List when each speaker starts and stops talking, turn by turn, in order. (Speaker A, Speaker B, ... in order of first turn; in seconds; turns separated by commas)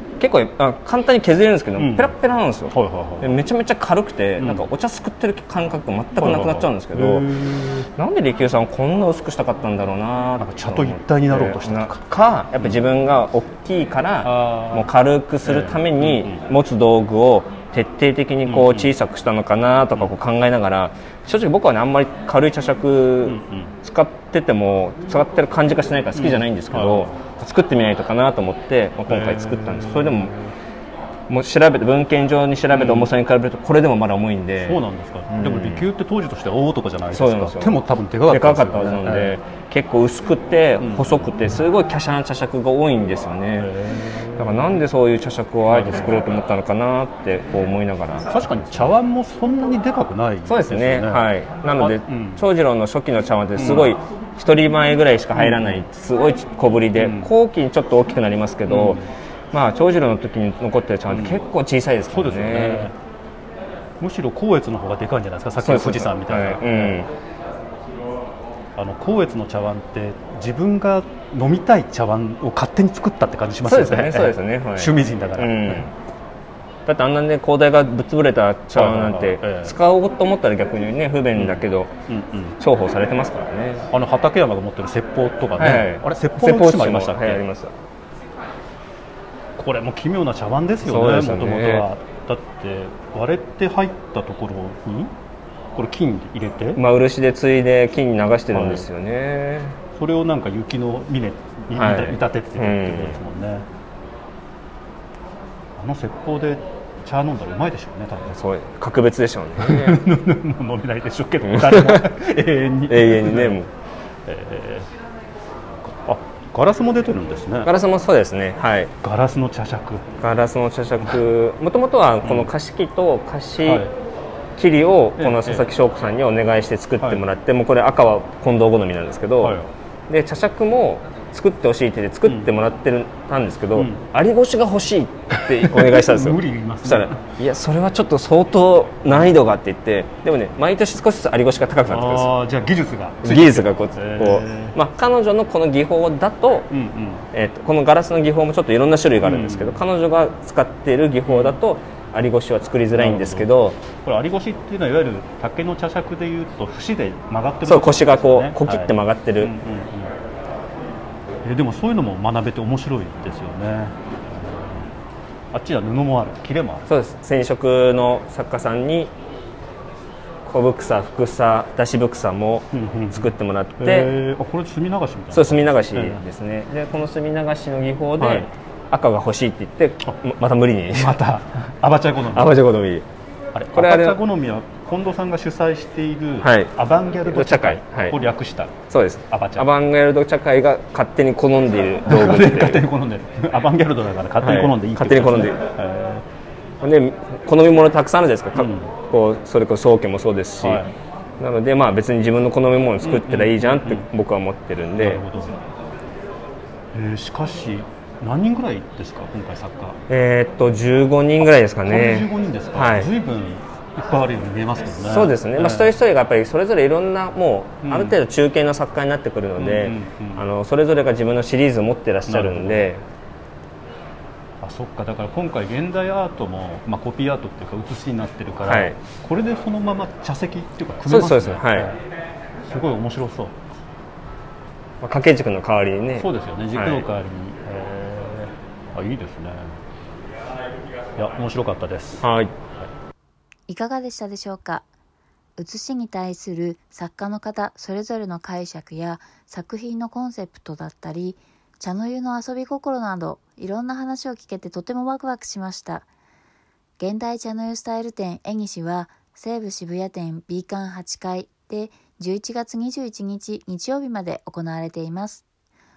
Speaker A: 0.2-7.3, Speaker B: 1.8-2.1, Speaker B: 2.7-3.4, Speaker B: 4.4-4.7, Speaker B: 6.2-7.9, Speaker A: 8.0-30.3, Speaker B: 10.4-12.0, Speaker B: 14.2-14.9, Speaker B: 15.4-16.4, Speaker B: 18.4-18.9, Speaker B: 23.2-23.7, Speaker B: 26.1-27.1, Speaker B: 29.1-30.5, Speaker A: 31.3-35.9, Speaker B: 32.7-33.1, Speaker B: 34.6-39.4, Speaker A: 37.1-43.7, Speaker B: 40.8-41.3, Speaker B: 43.6-44.8, Speaker A: 44.4-48.9, Speaker B: 45.7-46.3, Speaker B: 48.3-52.5, Speaker A: 50.5-62.9, Speaker B: 53.6-53.9, Speaker B: 55.3-55.8, Speaker B: 57.0-57.3, Speaker B: 58.7-59.0, Speaker B: 61.1-61.4, Speaker B: 62.1-62.9, Speaker B: 64.0-67.0, Speaker A: 65.6-67.1, Speaker B: 68.8-75.9, Speaker A: 73.7-75.9, Speaker A: 76.8-81.9, Speaker B: 78.7-79.8, Speaker B: 81.3-82.6, Speaker A: 82.6-83.9, Speaker B: 83.9-87.4, Speaker A: 85.6-87.7, Speaker B: 89.6-95.1, Speaker A: 90.8-91.8, Speaker B: 95.7-96.8, Speaker A: 96.7-99.8, Speaker B: 98.5-98.9, Speaker B: 99.9-103.7, Speaker A: 101.7-103.2, Speaker B: 105.8-108.4, Speaker A: 108.3-110.0, Speaker B: 109.6-113.6, Speaker A: 111.5-112.1, Speaker A: 112.9-113.7, Speaker B: 114.2-114.9, Speaker B: 116.0-117.7, Speaker A: 117.6-118.9, Speaker B: 119.0-120.1, Speaker A: 120.2-123.9, Speaker B: 122.2-122.5, Speaker B: 123.6-123.9, Speaker A: 124.6-142.3, Speaker B: 125.2-125.7, Speaker B: 127.0-127.2, Speaker B: 129.4-129.7, Speaker B: 132.2-132.5, Speaker B: 133.7-134.0, Speaker B: 135.3-137.2, Speaker B: 141.9-144.7, Speaker A: 143.2-146.7, Speaker B: 146.7-147.2, Speaker A: 147.3-153.8, Speaker B: 149.2-149.8, Speaker B: 151.2-151.6, Speaker B: 152.9-160.1, Speaker A: 157.7-159.5, Speaker B: 161.4-164.9, Speaker B: 165.5-166.9, Speaker A: 166.9-169.1, Speaker A: 170.4-174.1, Speaker B: 172.7-176.2, Speaker A: 175.3-181.2, Speaker B: 178.2-178.5, Speaker B: 180.9-182.6, Speaker A: 182.3-183.1, Speaker B: 183.5-189.7, Speaker A: 183.7-184.2, Speaker A: 186.4-186.7, Speaker A: 187.2-188.2, Speaker A: 188.9-192.8, Speaker B: 192.1-196.2, Speaker A: 194.4-195.6, Speaker A: 196.8-200.8, Speaker B: 198.5-198.9, Speaker B: 200.6-200.9, Speaker A: 201.4-205.2, Speaker B: 203.0-204.1, Speaker B: 205.0-205.6, Speaker B: 206.9-210.0, Speaker A: 210.1-213.1, Speaker B: 211.4-215.9, Speaker A: 215.1-223.0, Speaker B: 217.8-218.2, Speaker B: 219.6-220.5, Speaker B: 222.3-222.8, Speaker B: 224.6-232.0, Speaker A: 228.7-229.0, Speaker A: 231.1-231.9, Speaker B: 232.7-233.6, Speaker A: 235.0-237.1, Speaker B: 236.2-239.8, Speaker B: 241.2-242.2, Speaker A: 242.2-242.5, Speaker C: 243.7-244.8, Speaker C: 245.6-256.1, Speaker C: 257.0-265.4